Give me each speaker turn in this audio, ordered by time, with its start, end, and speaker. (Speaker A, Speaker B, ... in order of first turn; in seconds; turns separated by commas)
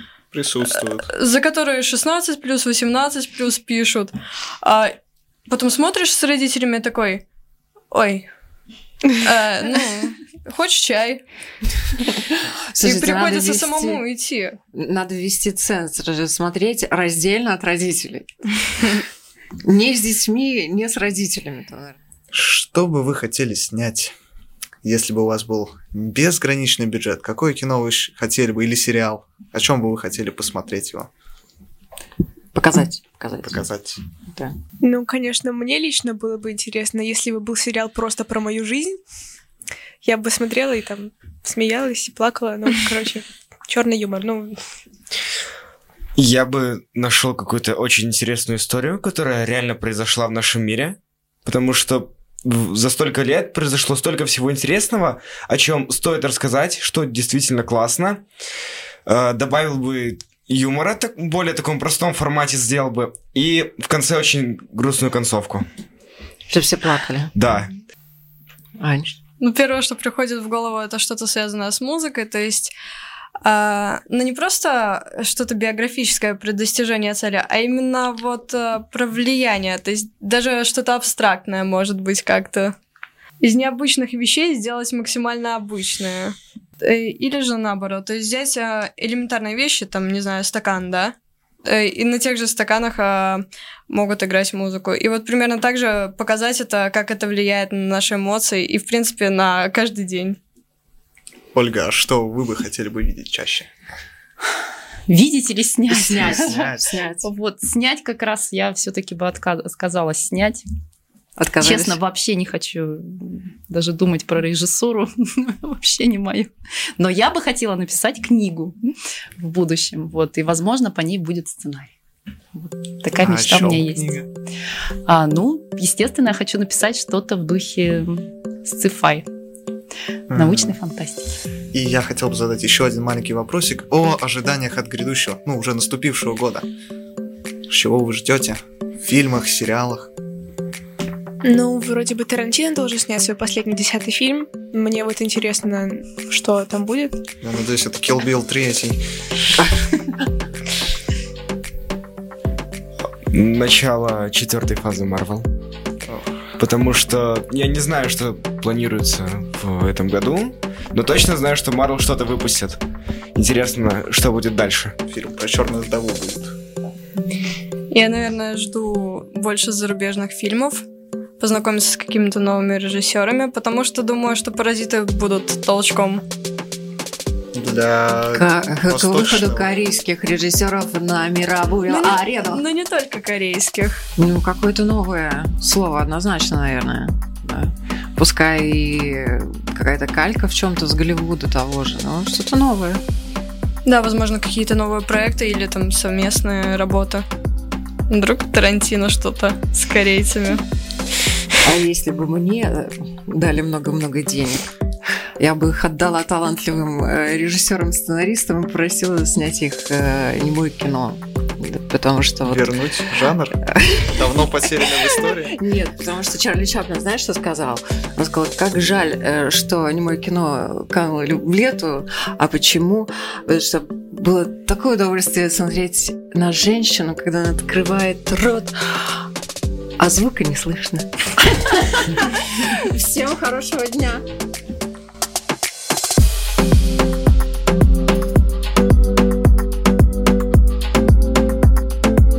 Speaker A: 0.3-1.1, Speaker B: 1.1-5.0, Speaker B: 5.5-7.2, Speaker B: 7.9-8.3, Speaker B: 9.2-11.2, Speaker C: 12.7-14.0, Speaker B: 12.8-14.6, Speaker C: 14.7-18.3, Speaker C: 19.6-22.0, Speaker A: 22.3-24.1, Speaker A: 24.8-31.1, Speaker C: 32.5-33.6, Speaker A: 33.4-34.0, Speaker D: 34.8-39.0, Speaker D: 40.0-44.6, Speaker E: 46.2-58.2, Speaker E: 59.0-65.6, Speaker C: 66.5-67.3, Speaker E: 67.3-67.7, Speaker C: 68.8-69.2, Speaker B: 69.4-72.7, Speaker B: 73.4-82.7, Speaker B: 83.4-91.1, Speaker B: 91.7-100.4, Speaker A: 101.5-103.7, Speaker F: 105.1-110.6, Speaker C: 105.9-107.2, Speaker A: 106.2-106.9, Speaker C: 111.4-112.0, Speaker F: 111.6-118.7, Speaker F: 119.4-121.9, Speaker F: 122.6-124.1, Speaker A: 123.2-124.3, Speaker F: 125.1-129.3, Speaker A: 130.3-130.7, Speaker F: 130.3-131.4, Speaker A: 131.7-136.7, Speaker A: 137.7-140.1, Speaker D: 141.4-147.2, Speaker A: 147.4-149.0, Speaker E: 153.3-155.5, Speaker A: 156.1-156.3, Speaker E: 156.6-162.8, Speaker E: 163.3-164.9, Speaker A: 165.1-166.6, Speaker B: 167.9-170.8, Speaker B: 171.4-176.2, Speaker A: 177.5-179.7, Speaker C: 178.3-182.6, Speaker B: 181.9-184.0, Speaker C: 184.2-193.0, Speaker B: 193.8-197.2, Speaker B: 198.1-200.6, Speaker C: 201.6-204.7, Speaker C: 205.4-212.6, Speaker A: 212.4-213.6, Speaker C: 213.6-228.7, Speaker A: 214.1-215.5, Speaker C: 230.0-234.2